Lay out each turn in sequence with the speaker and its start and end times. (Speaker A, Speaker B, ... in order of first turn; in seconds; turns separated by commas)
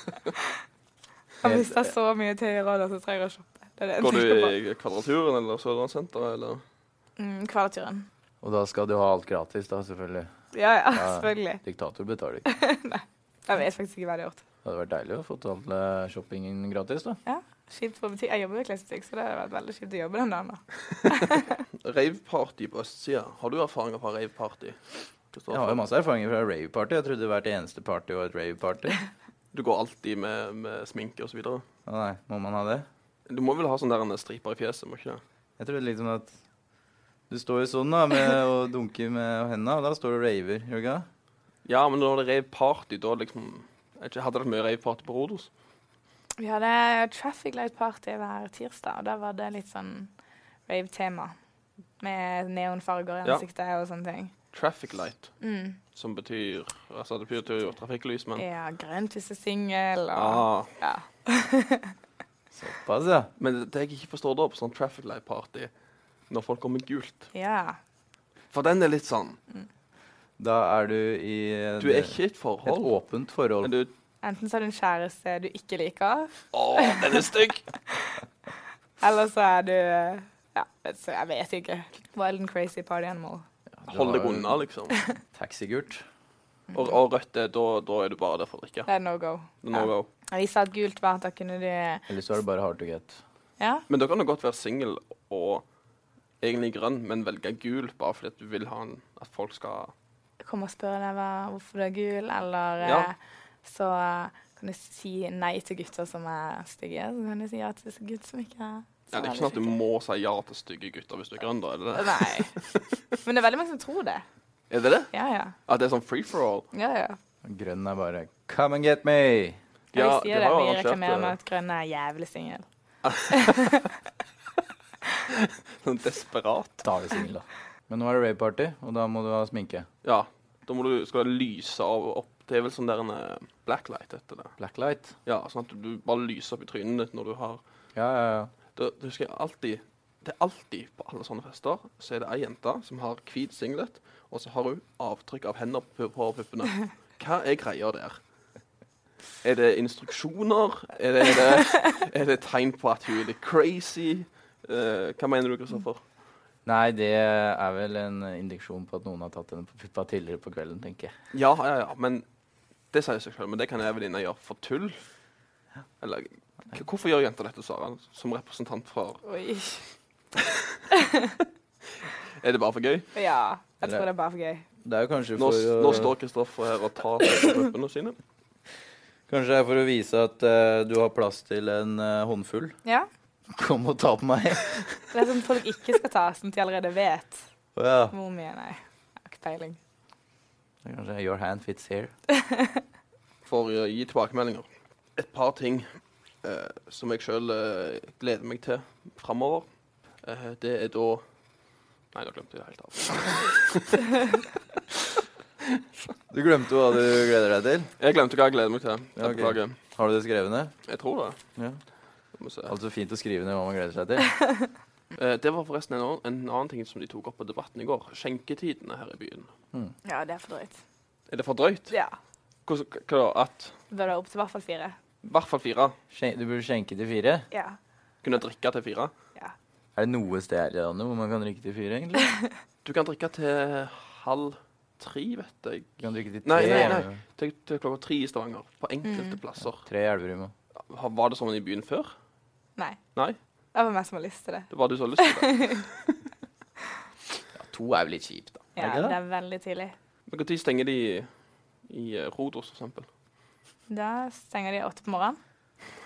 Speaker A: 1.4-1.9, Speaker B: 1.4-4.5, Speaker C: 4.0-6.6, Speaker B: 7.2-8.1, Speaker A: 8.4-10.3, Speaker B: 10.5-11.6, Speaker A: 10.9-12.4, Speaker B: 12.4-14.4, Speaker A: 14.6-17.2, Speaker B: 17.2-21.5, Speaker C: 21.8-24.8, Speaker C: 25.3-25.8, Speaker A: 25.5-29.0, Speaker C: 29.5-31.6, Speaker A: 31.9-32.9, Speaker C: 33.3-35.2, Speaker A: 35.6-36.4, Speaker A: 37.3-41.0, Speaker C: 41.6-45.5, Speaker B: 46.4-50.1, Speaker B: 50.7-51.4, Speaker B: 52.0-54.3, Speaker C: 54.5-55.3, Speaker B: 55.4-55.8, Speaker C: 55.9-58.4, Speaker B: 58.4-61.9, Speaker C: 60.1-60.7, Speaker A: 62.5-63.3, Speaker C: 63.4-65.7, Speaker C: 66.3-67.3, Speaker B: 67.3-67.8, Speaker C: 68.5-69.4, Speaker A: 70.4-73.7, Speaker C: 71.8-72.9, Speaker C: 73.6-73.9, Speaker B: 74.2-77.2, Speaker C: 76.5-77.6, Speaker B: 79.0-83.5, Speaker A: 83.7-84.6, Speaker C: 83.9-84.9, Speaker A: 85.3-86.0, Speaker C: 86.7-88.9, Speaker B: 88.9-92.0, Speaker C: 89.6-90.1, Speaker A: 92.1-93.2, Speaker B: 93.6-93.8, Speaker C: 93.9-95.6, Speaker C: 96.4-99.9, Speaker B: 100.4-109.7, Speaker C: 102.8-103.1, Speaker C: 109.1-112.8, Speaker B: 111.9-112.5, Speaker B: 113.2-114.2, Speaker C: 114.7-115.1, Speaker B: 115.1-115.5, Speaker C: 115.7-116.7, Speaker B: 116.7-117.2, Speaker A: 117.4-119.6, Speaker C: 119.9-121.3, Speaker B: 119.9-122.6, Speaker C: 123.0-123.7, Speaker B: 123.3-123.9, Speaker C: 125.3-126.8, Speaker A: 126.8-129.9, Speaker C: 130.0-134.6, Speaker A: 134.6-135.2, Speaker C: 135.2-137.6, Speaker A: 137.9-138.5, Speaker C: 138.7-148.2, Speaker C: 149.4-156.0, Speaker A: 156.7-161.1, Speaker C: 161.3-162.2, Speaker C: 162.9-165.0, Speaker C: 166.0-169.2, Speaker B: 169.2-169.8, Speaker B: 170.9-171.4, Speaker C: 172.4-173.1, Speaker B: 173.1-174.6, Speaker A: 174.8-176.1, Speaker C: 175.4-178.2, Speaker A: 179.3-182.7, Speaker A: 183.5-184.9, Speaker B: 185.1-187.4, Speaker A: 187.7-188.1, Speaker B: 188.1-189.8, Speaker A: 190.8-192.1, Speaker B: 192.3-192.8, Speaker C: 193.4-195.8, Speaker C: 196.4-199.7, Speaker C: 200.2-201.2, Speaker C: 202.1-204.4, Speaker A: 206.3-207.9, Speaker C: 208.0-209.8, Speaker A: 209.2-210.7, Speaker C: 210.8-211.4, Speaker C: 212.3-212.7, Speaker A: 212.7-214.4, Speaker C: 215.2-219.5, Speaker B: 220.0-220.8, Speaker C: 221.3-221.9, Speaker B: 221.9-222.2, Speaker C: 222.7-223.8, Speaker B: 223.9-225.0, Speaker C: 225.2-226.0, Speaker A: 226.1-227.5, Speaker B: 227.5-227.8, Speaker C: 228.2-229.1, Speaker A: 229.9-232.3, Speaker C: 232.8-235.9, Speaker A: 236.0-237.2, Speaker C: 236.4-239.8, Speaker B: 239.0-239.4, Speaker A: 239.8-240.5, Speaker C: 240.9-242.1, Speaker B: 243.7-245.8, Speaker C: 244.7-246.1, Speaker A: 247.5-249.2, Speaker B: 248.8-249.9, Speaker C: 250.3-251.3, Speaker C: 251.9-253.1, Speaker B: 253.9-255.4